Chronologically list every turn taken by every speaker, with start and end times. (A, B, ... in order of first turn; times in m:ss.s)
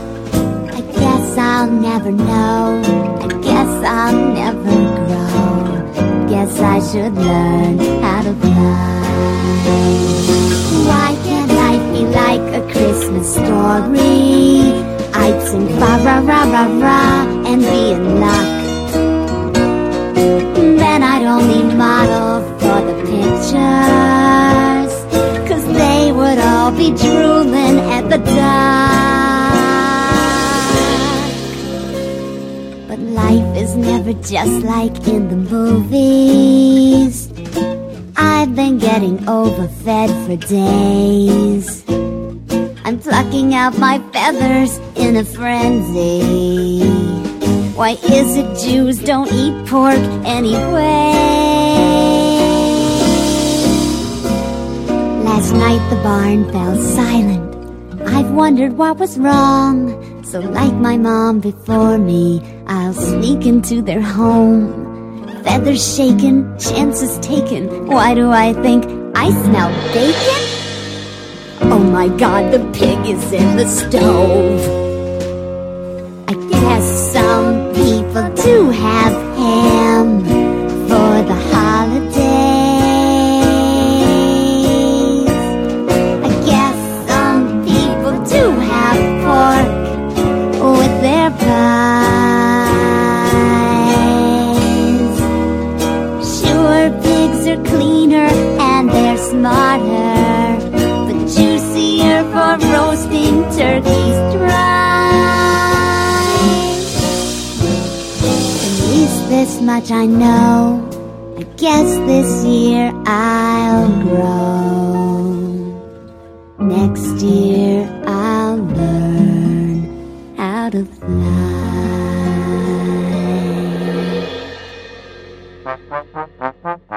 0:00.7-0:18.7 A
0:20.5-0:31.3 A
0:32.9-0:37.3 A
0:38.2-0:41.8 A
0:42.8-0:53.4 A
0:55.2-1:10.5 A
1:11.7-1:14.7 A
1:16.3-1:25.4 A
1:26.2-1:30.0 A
1:30.6-1:35.2 A
1:36.2-1:46.9 A
1:48.6-1:55.8 A
1:56.6-2:04.1 A